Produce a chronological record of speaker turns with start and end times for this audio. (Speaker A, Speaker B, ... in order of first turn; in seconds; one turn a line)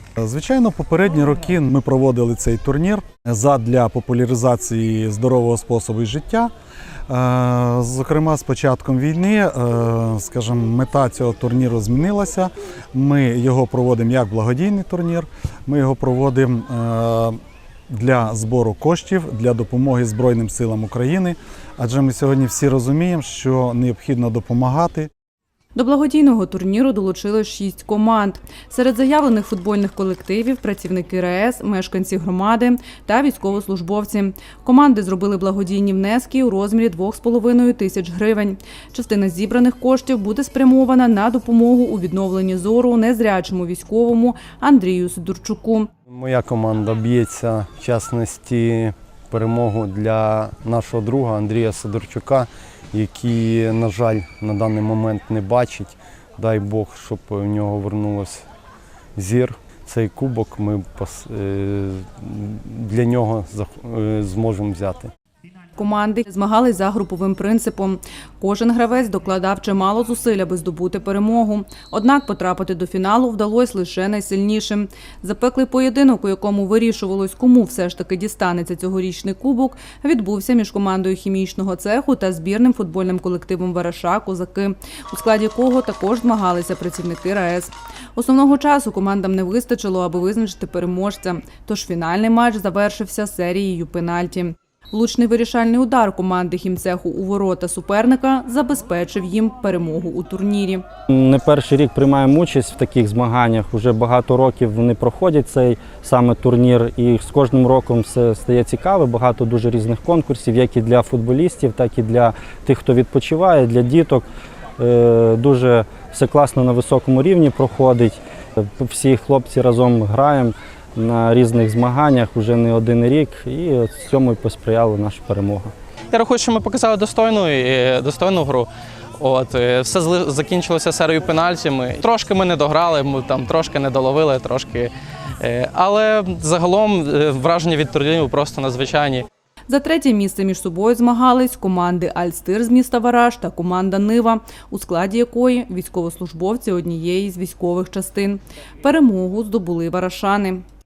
Speaker A: 0.2-6.5
Speaker A: 7.1-17.4
Speaker A: 17.9-25.1
Speaker B: 25.7-45.9
Speaker C: 46.1-58.4
Speaker C: 59.1-65.1
Speaker B: 65.8-100.8
Speaker D: 101.1-114.2
Speaker D: 114.8-125.7
Speaker E: 126.1-139.2
Speaker B: 139.7-150.6